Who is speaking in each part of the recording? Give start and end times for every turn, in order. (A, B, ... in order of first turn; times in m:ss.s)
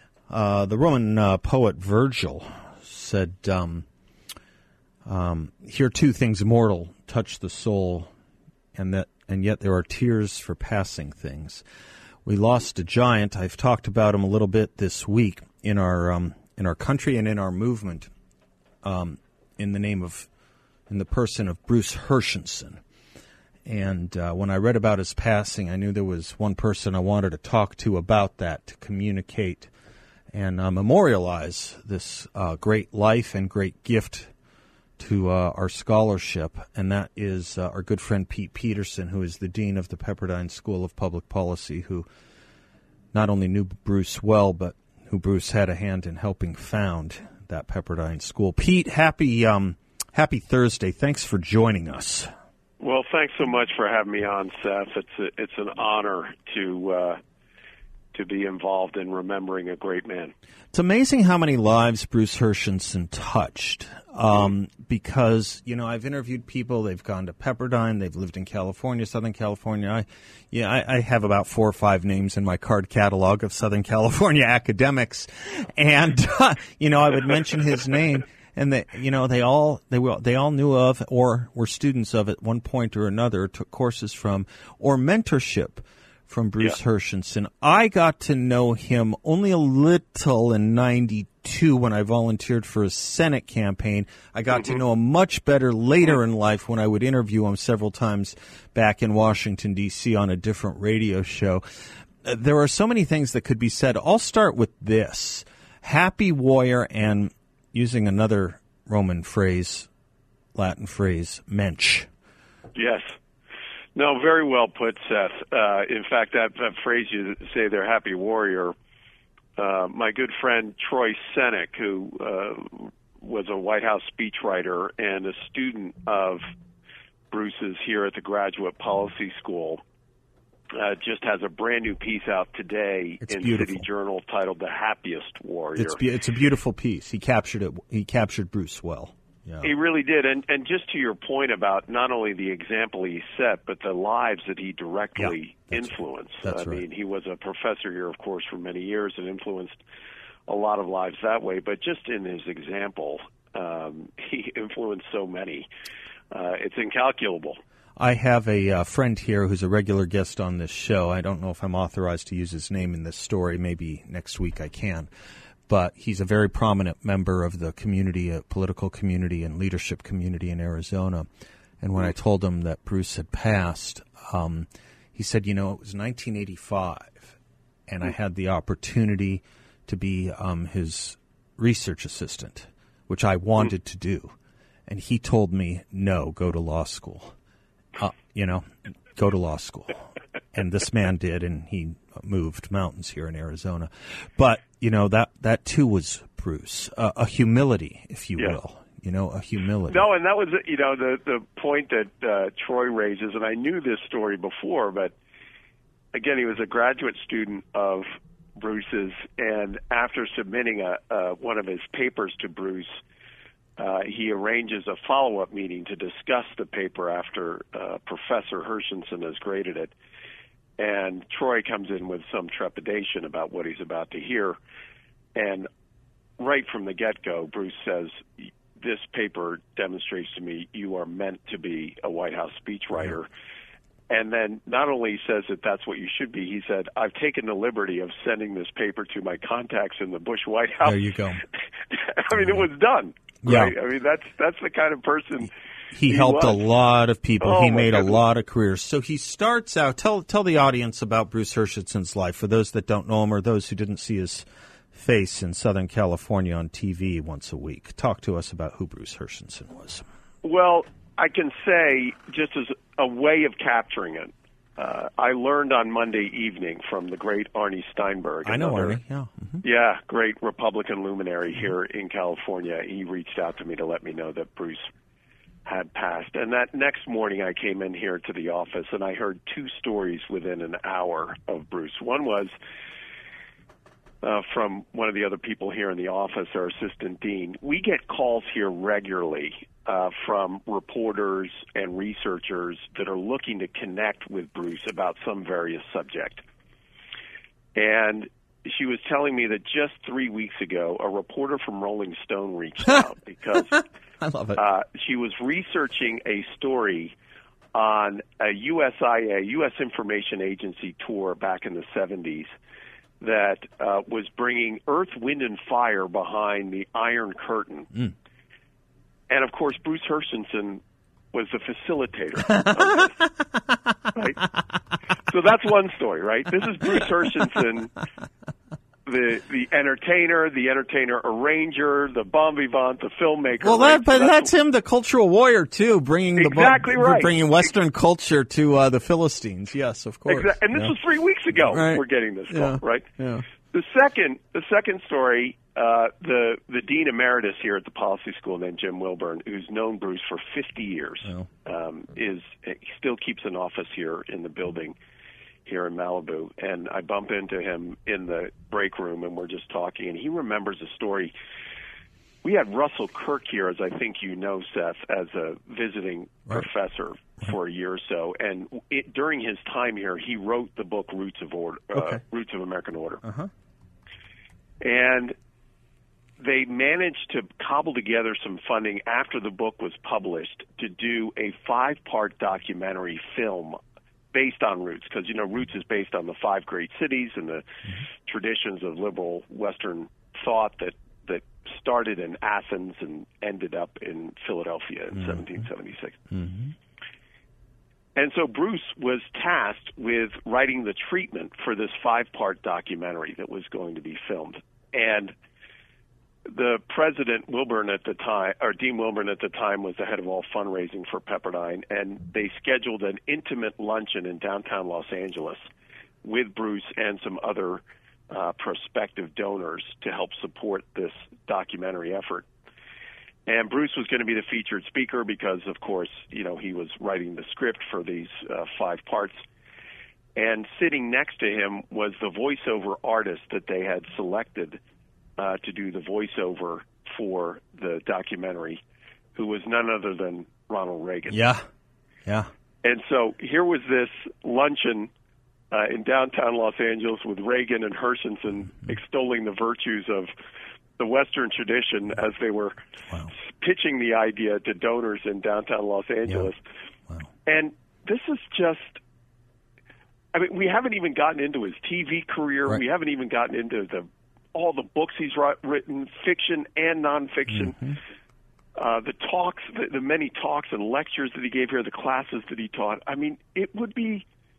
0:00.3-0:03.9 A
0:05.0-0:08.1 A
0:08.7-0:11.6 A
0:12.2-0:18.1 A
0:18.8-0:20.3 A
0:20.9-0:22.8 A
0:23.6-0:29.7 A
0:30.3-0:34.3 A
0:35.0-0:42.1 A
0:43.1-0:52.3 A
0:52.8-0:57.2 B
0:58.1-1:00.3 B
1:00.7-1:49.9 A
1:50.5-1:52.1 A
1:52.7-1:53.2 B
1:54.0-1:58.7 B
1:59.6-2:06.4 B
2:07.3-2:09.8 B
2:10.7-2:16.0 B
2:13.2-2:13.8 A
2:15.8-2:19.7 A
2:19.6-2:29.8 B
2:25.2-2:25.9 A
2:26.4-2:26.8 A
2:30.5-2:35.7 B
2:36.3-2:37.6 B
2:38.0-2:45.1 A
2:45.7-2:51.2 A
2:51.8-3:04.3 A
3:04.9-3:07.4 A
3:08.0-3:20.1 A
3:19.9-3:25.1 B
3:26.1-3:28.1 B
3:28.6-3:33.0 B
3:33.8-3:39.9 B
3:40.8-3:44.6 B
3:45.3-3:45.7 B
3:46.4-3:53.3 B
3:54.1-4:01.1 B
4:00.8-4:01.4 A
4:01.9-4:05.5 B
4:02.3-4:02.6 A
4:03.4-4:03.7 A
4:05.9-4:20.0 A
4:06.0-4:06.6 B
4:07.4-4:08.2 B
4:20.4-4:29.0 B
4:28.4-4:29.6 A
4:29.6-4:34.8 B
4:35.6-4:42.5 B
4:44.2-4:56.4 B
4:57.7-5:03.8 B
5:04.2-5:04.6 A
5:04.5-5:07.1 B
5:07.7-5:12.5 B
5:13.2-5:18.0 B
5:19.3-5:20.8 B
5:21.3-5:23.2 B
5:24.1-5:24.5 B
5:25.2-5:28.0 B
5:29.0-5:34.5 B
5:33.6-5:40.9 A
5:36.4-5:37.3 B
5:40.3-5:43.1 B
5:41.6-5:43.4 A
5:43.6-5:55.0 B
5:55.6-6:01.3 B
6:02.4-6:13.2 B
6:11.9-6:12.2 A
6:13.2-6:13.5 A
6:14.8-6:15.4 B
6:16.4-6:23.8 B
6:24.3-6:36.3 B
6:35.1-6:35.4 A
6:36.3-6:36.7 A
6:38.2-6:45.3 B
6:46.4-6:55.6 B
6:56.2-7:02.5 B
7:03.4-7:09.4 B
7:10.4-7:14.8 B
7:15.4-7:18.8 B
7:19.3-7:21.4 B
7:21.3-7:21.6 A
7:22.2-7:22.5 A
7:22.8-7:25.1 B
7:25.7-7:30.3 B
7:31.0-7:36.6 B
7:37.4-7:39.0 B
7:40.3-7:48.0 B
7:47.5-7:48.0 A
7:48.7-7:54.2 B